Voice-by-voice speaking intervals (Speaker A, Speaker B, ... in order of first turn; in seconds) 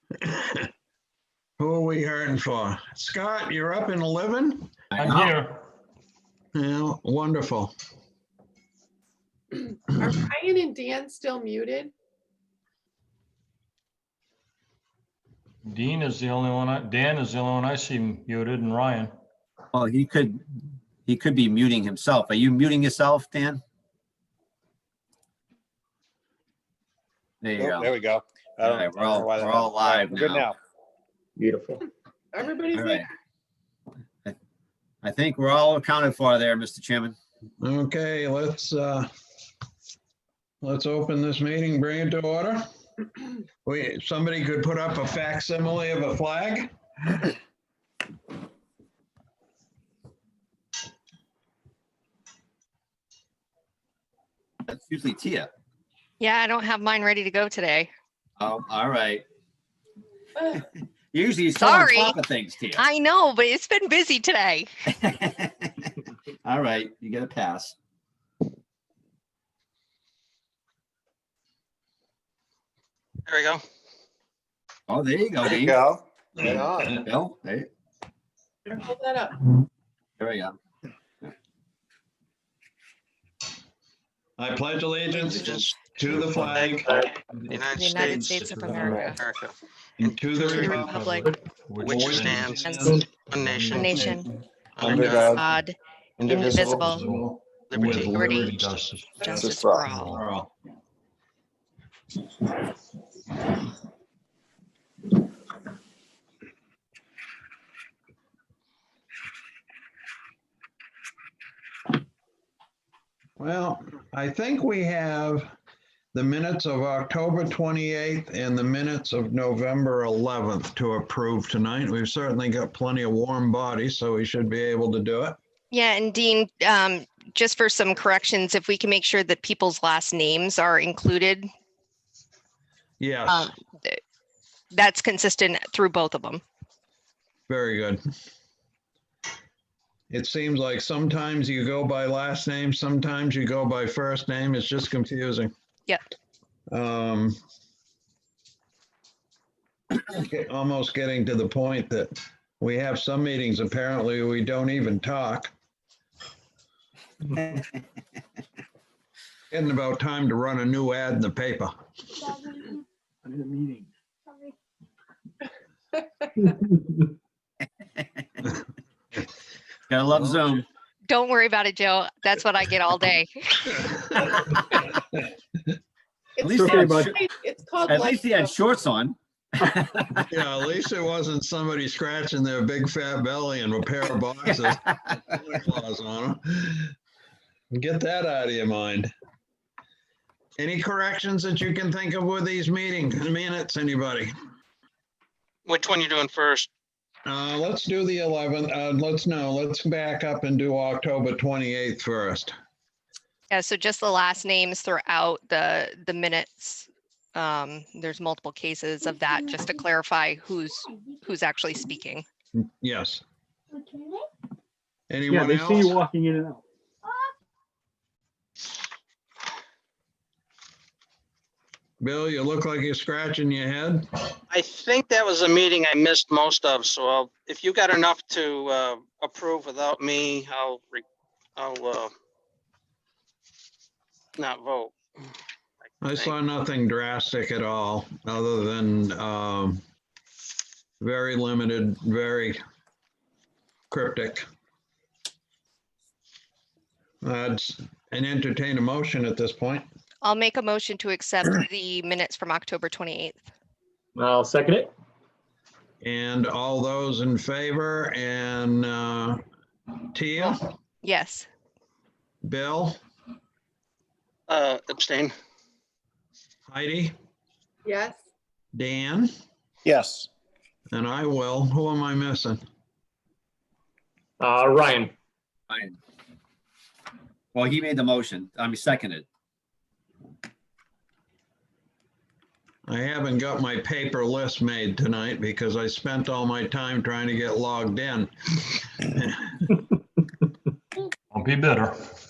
Speaker A: 0.2-0.7, 1.6-5.3, 6.5-7.7, 37.6-39.1, 40.6-42.6, 43.6-46.7, 76.4-76.9, 84.4-89.0, 90.0-91.0, 91.8-93.0, 93.9-94.2, 96.2-98.8, 100.0-100.5, 113.4-115.5, 116.1-125.4, 133.0-133.5, 137.5-138.0, 140.1-145.5, 146.7-147.4, 149.9-155.5, 159.5-161.7, 180.3-186.9, 187.7-189.1, 190.6-194.3, 197.3-202.6, 212.5-213.2, 215.1-215.9, 222.0-224.2, 236.0-239.8, 241.0-242.6, 243.9-244.5, 247.2-249.9, 256.0-259.4, 260.1-260.7, 262.4-263.0, 266.7-267.1, 268.7-269.3, 270.9-272.6, 282.9-289.7
Speaker B: 4.9-5.3, 19.7-20.4, 21.1-23.6, 27.4-27.9, 28.6-30.5, 32.7-33.1, 35.0-37.2, 54.7-55.5, 58.4-59.2, 60.5-62.8, 64.9-65.9, 66.4-67.8, 74.9-75.8, 76.9-77.7, 80.2-80.6, 157.3-157.6, 169.9-170.7, 176.4-177.2, 177.9-180.2, 184.5-185.2, 275.7-276.0, 277.5-279.3
Speaker C: 5.0-5.6, 15.7-19.1, 86.0-86.7, 90.6-94.1, 96.5-100.2, 291.3-291.9
Speaker D: 9.5-11.9, 32.3-33.1, 78.7-79.4, 176.4-178.6, 267.9-268.2
Speaker E: 27.6-30.6, 75.5-77.0, 94.8-95.4, 96.2-96.8, 99.3-99.9
Speaker F: 31.4-31.8, 163.2-163.9, 166.4-167.1, 176.5-177.2, 215.3-216.6, 254.2-254.9, 274.4-275.1
Speaker G: 56.2-57.9, 61.6-62.2, 62.8-64.7, 87.7-89.2, 90.4-91.3, 92.6-93.0, 93.7-94.3, 94.9-97.1, 97.8-98.5, 99.2-100.2, 125.7-131.5, 133.3-134.0, 134.7-136.4, 171.1-173.7, 203.5-212.2, 250.2-253.5, 261.0-261.5
Speaker H: 73.3-73.6, 85.2-90.5, 91.8-94.1, 94.8-95.4, 97.7-98.3, 195.7-196.7, 224.5-231.0, 231.6-232.1, 234.4-235.0, 236.0-236.3, 264.5-265.3